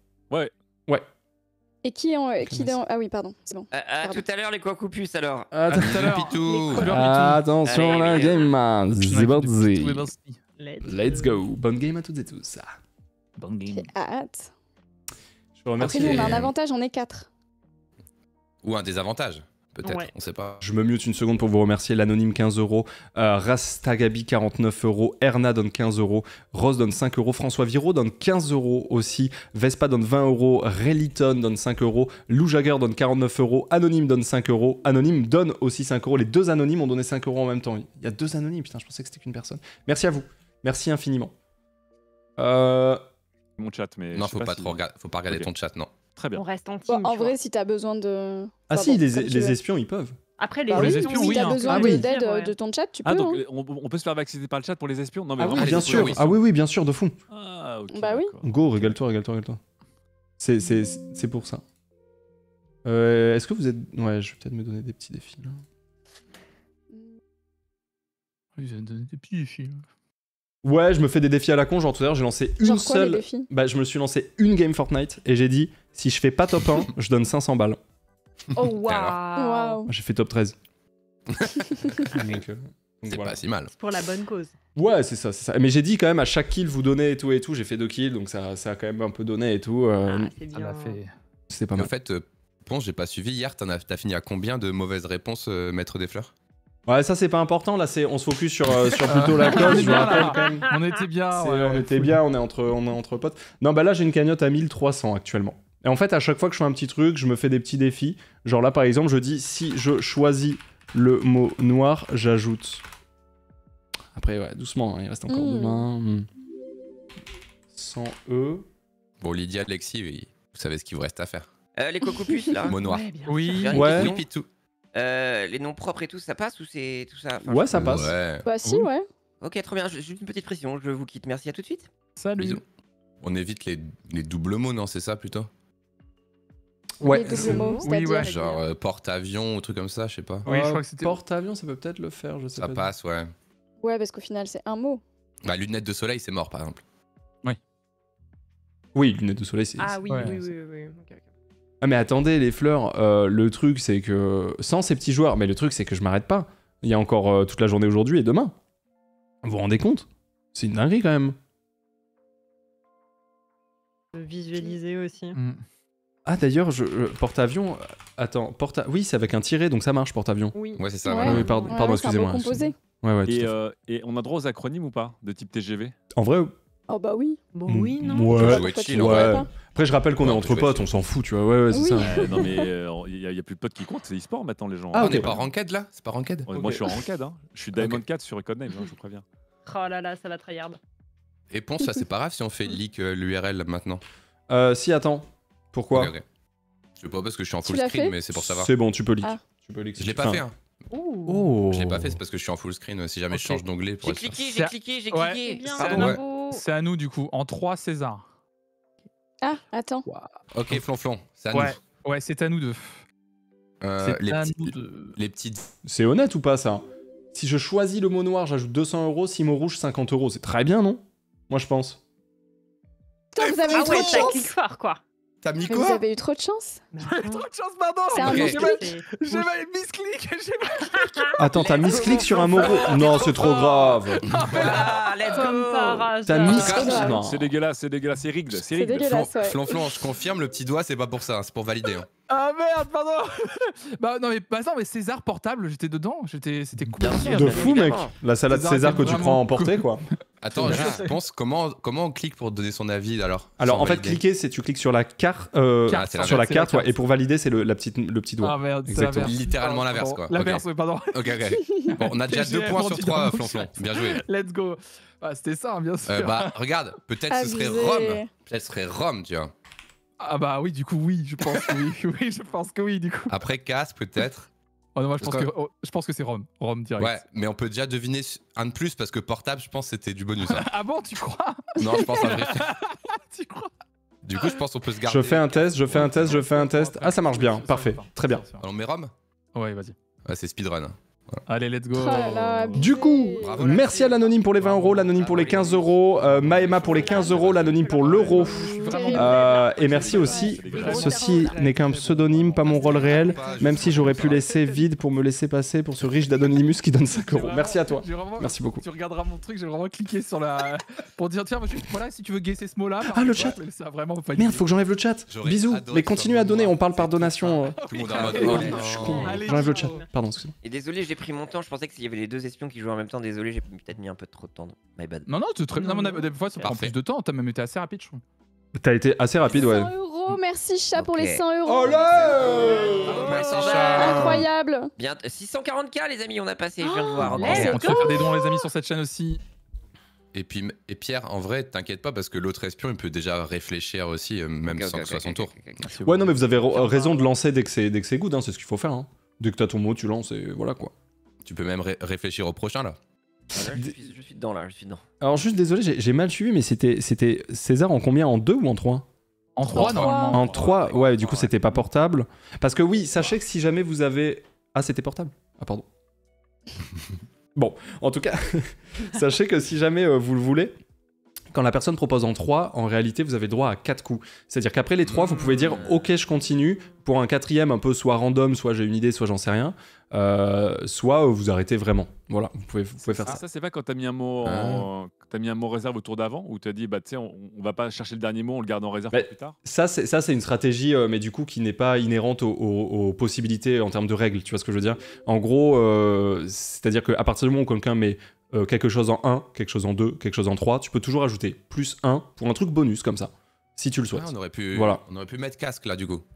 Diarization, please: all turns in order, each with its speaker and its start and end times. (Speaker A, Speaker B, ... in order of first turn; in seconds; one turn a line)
Speaker A: 1.8-4.2
Speaker B: 2.4-2.8
Speaker C: 3.7-5.6
Speaker B: 5.5-6.2
Speaker D: 5.7-7.0
Speaker E: 5.7-7.6
Speaker F: 6.4-6.7
Speaker B: 6.8-10.1
Speaker C: 7.6-8.5
Speaker E: 9.1-10.4
Speaker F: 10.6-11.4
Speaker B: 10.8-12.7
Speaker E: 13.4-13.9
Speaker A: 13.7-14.5
Speaker B: 15.6-16.4
Speaker A: 15.8-17.3
Speaker D: 16.0-16.5
Speaker D: 18.6-20.6
Speaker F: 19.8-20.1
Speaker B: 20.6-41.3
Speaker B: 42.4-43.0
Speaker G: 43.6-45.5
Speaker D: 44.1-45.9
Speaker G: 46.1-46.4
Speaker F: 46.3-47.4
Speaker A: 46.9-49.6
Speaker B: 48.7-50.2
Speaker F: 50.4-52.6
Speaker E: 50.7-51.8
Speaker A: 50.7-53.4
Speaker B: 51.7-52.1
Speaker G: 53.0-56.4
Speaker B: 55.4-57.1
Speaker D: 55.5-56.3
Speaker G: 57.3-58.9
Speaker A: 57.9-58.3
Speaker B: 58.4-59.6
Speaker B: 60.4-61.6
Speaker B: 62.9-65.6
Speaker E: 68.6-69.8
Speaker B: 70.6-77.8
Speaker A: 72.6-73.5
Speaker F: 78.5-79.9
Speaker D: 78.6-79.2
Speaker A: 79.3-79.9
Speaker B: 79.9-80.6
Speaker B: 82.1-83.4
Speaker D: 83.1-83.7
Speaker F: 83.7-84.6
Speaker B: 84.8-90.3
Speaker F: 90.0-91.0
Speaker E: 90.5-91.1
Speaker B: 91.5-91.9
Speaker D: 91.8-96.3
Speaker B: 96.9-100.7
Speaker E: 99.0-102.2
Speaker F: 99.5-100.8
Speaker B: 101.3-112.8
Speaker B: 114.1-116.3
Speaker A: 115.3-115.9
Speaker B: 117.7-118.7
Speaker D: 119.2-121.5
Speaker C: 121.8-122.8
Speaker D: 122.6-123.1
Speaker F: 122.7-123.5
Speaker E: 123.2-123.8
Speaker C: 123.4-124.3
Speaker D: 123.7-124.5
Speaker B: 123.7-124.2
Speaker C: 125.0-128.1
Speaker B: 127.4-128.2
Speaker D: 127.7-128.5
Speaker A: 128.4-129.1
Speaker C: 129.4-131.9
Speaker E: 132.2-132.6
Speaker D: 133.2-135.5
Speaker B: 137.0-137.8
Speaker A: 137.0-138.3
Speaker F: 137.3-138.6
Speaker E: 137.7-138.3
Speaker D: 138.1-140.5
Speaker B: 140.4-142.9
Speaker E: 140.5-141.2
Speaker D: 142.6-143.3
Speaker A: 143.8-145.0
Speaker D: 145.4-146.8
Speaker B: 148.9-150.5
Speaker F: 149.8-151.2
Speaker E: 150.1-150.3
Speaker B: 151.8-158.6
Speaker B: 159.4-161.4
Speaker F: 164.1-165.4
Speaker E: 165.3-165.6
Speaker B: 166.2-170.6
Speaker F: 170.5-171.9
Speaker D: 170.8-171.7
Speaker A: 171.1-172.8
Speaker B: 171.2-173.6
Speaker G: 173.3-175.9
Speaker B: 176.1-176.5
Speaker A: 176.9-177.4
Speaker F: 177.5-178.5
Speaker B: 177.7-182.6
Speaker A: 178.2-179.5
Speaker D: 178.3-179.5
Speaker D: 180.2-180.9
Speaker A: 181.7-182.7
Speaker G: 182.0-185.4
Speaker B: 184.9-185.3
Speaker D: 185.0-186.5
Speaker G: 186.5-189.2
Speaker F: 189.7-190.8
Speaker D: 191.5-194.0
Speaker B: 194.5-196.1
Speaker D: 195.9-196.2
Speaker D: 197.0-198.7
Speaker A: 197.6-198.2
Speaker B: 198.3-200.4
Speaker D: 200.0-200.6
Speaker F: 200.9-201.5
Speaker B: 201.3-202.2
Speaker D: 201.7-204.4
Speaker E: 203.3-203.6
Speaker C: 204.0-206.2
Speaker E: 204.4-208.2
Speaker F: 205.4-206.6
Speaker D: 206.0-206.2
Speaker A: 209.4-210.1
Speaker E: 210.1-210.8
Speaker D: 210.5-211.8
Speaker E: 211.5-213.0
Speaker D: 213.8-215.7
Speaker E: 214.0-215.2
Speaker B: 215.8-222.0
Speaker A: 223.3-224.5
Speaker D: 223.4-224.3
Speaker F: 223.7-225.0
Speaker D: 225.4-226.0
Speaker A: 225.7-226.9
Speaker F: 226.9-227.4
Speaker E: 227.0-231.4
Speaker F: 228.1-229.6
Speaker A: 228.2-228.9
Speaker D: 228.2-228.6
Speaker F: 231.0-231.3
Speaker B: 231.4-234.3
Speaker C: 231.5-233.6
Speaker E: 232.5-235.6
Speaker F: 232.8-233.9
Speaker C: 234.4-236.1
Speaker F: 234.7-237.2
Speaker B: 236.2-237.5
Speaker D: 236.5-237.0
Speaker G: 236.5-239.2
Speaker A: 236.7-237.2
Speaker A: 238.6-240.0
Speaker D: 239.1-242.1
Speaker E: 242.3-249.9
Speaker C: 247.0-248.2
Speaker B: 247.2-250.0
Speaker D: 250.4-254.2
Speaker E: 250.5-251.2
Speaker B: 250.6-251.0
Speaker B: 253.6-259.4
Speaker E: 255.9-257.2
Speaker D: 255.9-256.6
Speaker E: 258.4-261.4
Speaker D: 259.1-264.2
Speaker A: 261.5-261.9
Speaker E: 262.0-266.6
Speaker D: 266.1-269.5
Speaker A: 267.3-268.3
Speaker E: 270.2-273.4
Speaker D: 273.3-274.5
Speaker E: 275.0-277.2
Speaker D: 275.2-275.5
Speaker D: 277.0-280.7
Speaker E: 280.4-283.7
Speaker D: 281.8-282.7
Speaker D: 284.2-286.4
Speaker B: 285.0-288.4
Speaker E: 285.9-288.7
Speaker D: 288.6-289.1
Speaker E: 289.6-289.9
Speaker D: 290.2-291.4
Speaker E: 291.5-292.9
Speaker A: 291.9-293.7
Speaker B: 292.7-308.9
Speaker D: 293.4-294.2
Speaker E: 294.4-296.7
Speaker D: 296.5-297.9
Speaker F: 296.8-301.6
Speaker A: 297.0-297.4
Speaker E: 298.0-299.7
Speaker A: 298.5-299.4
Speaker G: 299.4-301.2
Speaker E: 300.7-304.3
Speaker D: 302.7-304.5
Speaker F: 303.0-304.9
Speaker E: 307.1-314.7
Speaker B: 313.1-313.6
Speaker B: 314.4-320.5
Speaker D: 315.3-319.4
Speaker E: 317.6-320.0
Speaker F: 317.9-320.1
Speaker C: 318.2-319.0
Speaker C: 320.6-325.3
Speaker E: 325.3-328.2
Speaker F: 325.8-326.7
Speaker D: 326.6-327.0
Speaker B: 328.8-329.9
Speaker A: 329.5-332.2
Speaker C: 330.9-334.4
Speaker B: 331.7-333.3
Speaker F: 332.9-333.9
Speaker D: 333.0-334.5
Speaker A: 333.9-334.9
Speaker C: 335.0-338.0
Speaker F: 336.8-338.2
Speaker E: 337.2-339.4
Speaker A: 337.7-338.6
Speaker D: 340.3-345.6
Speaker C: 344.6-345.9
Speaker E: 345.8-347.3
Speaker B: 346.1-350.9
Speaker D: 351.4-353.0
Speaker C: 353.5-355.1
Speaker B: 353.7-354.0
Speaker B: 355.2-359.1
Speaker E: 359.6-360.7
Speaker A: 359.6-360.4
Speaker D: 359.7-360.3
Speaker B: 359.7-365.9
Speaker C: 360.5-361.5
Speaker B: 367.6-370.7
Speaker B: 371.5-383.4
Speaker D: 375.0-376.0
Speaker E: 375.4-375.8
Speaker F: 376.3-376.9
Speaker G: 383.0-389.6
Speaker D: 384.4-384.9
Speaker B: 389.1-405.0
Speaker D: 404.1-406.2